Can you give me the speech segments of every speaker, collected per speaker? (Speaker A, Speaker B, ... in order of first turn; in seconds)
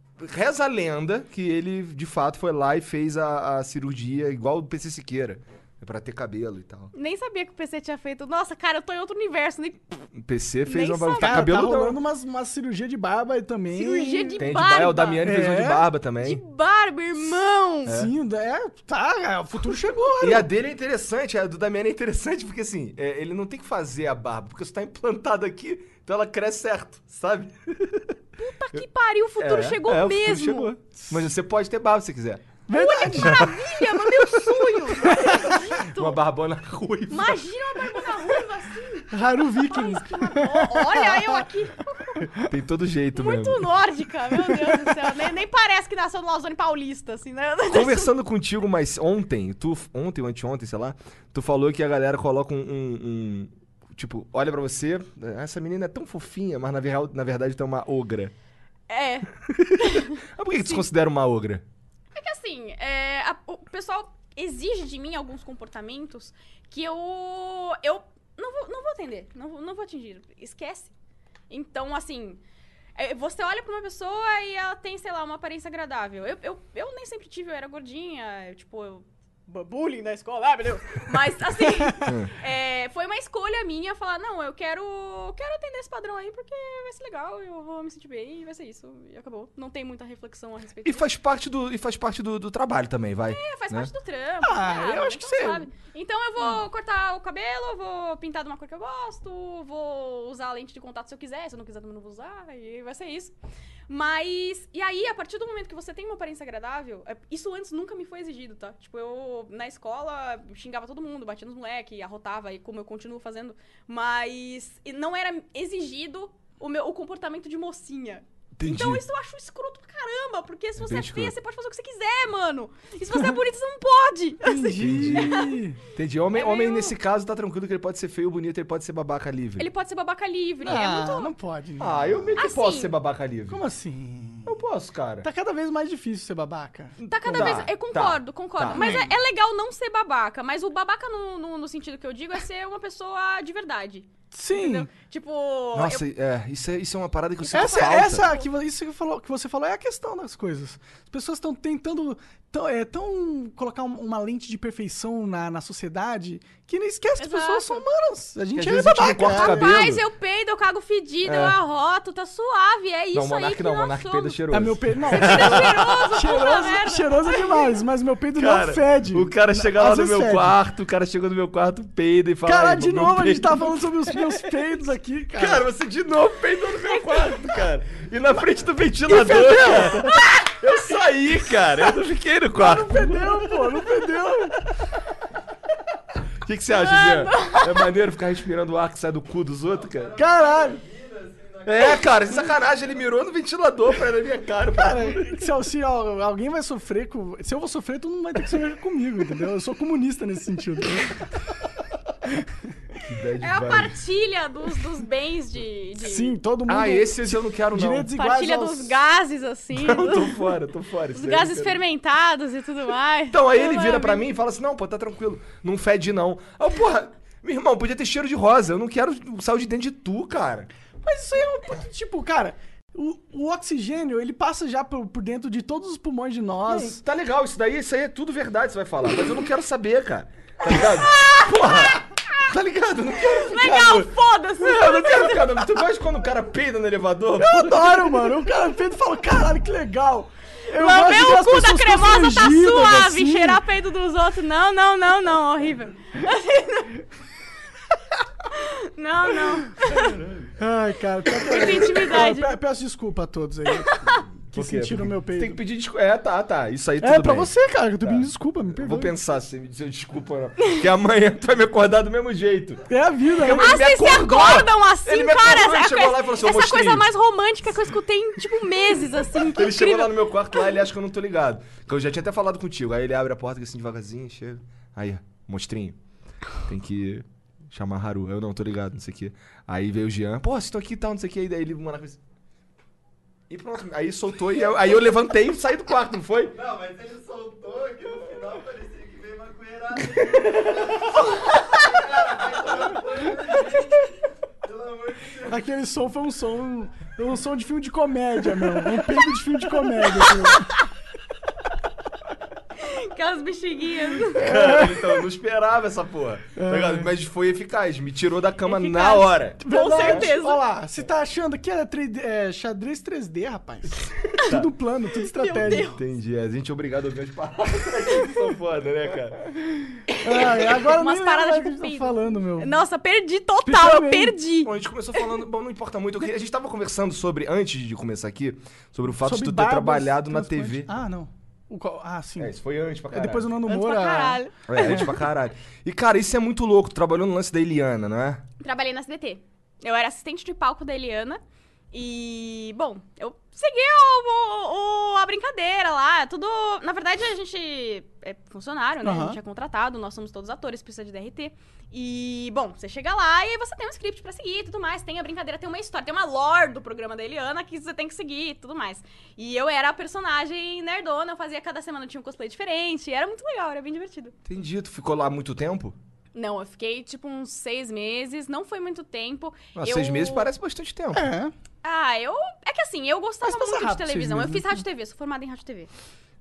Speaker A: 0.2-6.9, 10.2-12.0, 14.4-16.4, 17.9-18.1, 20.2-28.1, 29.4-32.5, 34.5-37.5, 42.3-43.7, 47.7-58.3, 59.4-61.6, 82.0-82.3, 90.8-93.9, 118.5-119.0, 120.8-121.3, 124.8-125.4, 125.9-129.7, 131.8-133.6, 134.4-135.3, 137.1-139.0, 145.7-148.3, 158.5-160.0, 161.2-161.6, 163.1-166.0, 168.3-174.2, 175.3-183.5, 186.4-190.1, 191.6-195.4, 203.0-204.0, 206.7-208.1, 209.7-211.8, 213.3-220.7, 226.7-238.0, 254.5-262.8, 263.4-267.1, 269.4-276.0, 276.6-282.2, 283.5-286.7, 289.9-291.0, 304.3-310.2, 314.4-314.7, 315.8-319.4, 324.6-330.9, 332.4-333.5, 334.7-338.4, 364.4-365.9, 369.7-371.3
Speaker B: 6.9-10.0, 10.7-11.5, 13.7-15.2, 16.2-18.0, 28.4-30.7, 32.7-36.2, 37.1-42.3, 43.1-48.1, 58.9-60.8, 62.1-70.9, 71.5-72.4, 73.0-91.0, 93.3-103.3, 103.9-125.6, 126.3-127.0, 129.6-131.3, 132.4-132.9, 137.0-146.0, 147.4-148.4, 157.2-157.8, 159.3-164.4, 165.1-167.7, 176.8-177.4, 179.9-180.2, 186.7-187.9, 203.4-206.3, 208.1-210.5, 211.1-214.2, 230.8-232.0, 233.2-235.7, 240.7-247.0, 248.5-250.2, 251.4-252.5, 253.8-254.2, 263.5-270.6, 300.3-300.6, 302.8-304.5, 308.6-310.6, 315.2-316.0, 320.3-325.2, 333.6-335.2, 338.6-341.4, 341.9-364.4, 366.3-370.5, 371.8-375.9
Speaker C: 11.2-14.4, 15.2-15.8, 17.8-20.5, 32.7-33.8, 35.0-35.3, 39.1-41.4, 94.4-95.7, 124.4-125.8, 130.6-132.2, 133.5-134.5, 135.2-137.5, 138.7-139.1, 144.3-144.9, 147.5-159.8, 164.5-170.6, 172.4-175.7, 179.1-180.2, 182.5-184.6, 190.2-190.8, 194.7-201.3, 206.0-208.9, 221.0-227.0, 237.3-243.6, 250.6-255.6, 257.0-259.1, 262.9-263.7, 295.4-300.8, 304.4-305.2, 306.6-307.1, 309.6-315.9, 320.2-322.7, 323.6-324.4, 329.2-332.5, 333.1-335.1, 349.0-349.4, 371.1-371.5, 373.4-374.8
Speaker D: 191.0-191.6, 286.7-290.6, 292.0-293.7, 294.9-295.3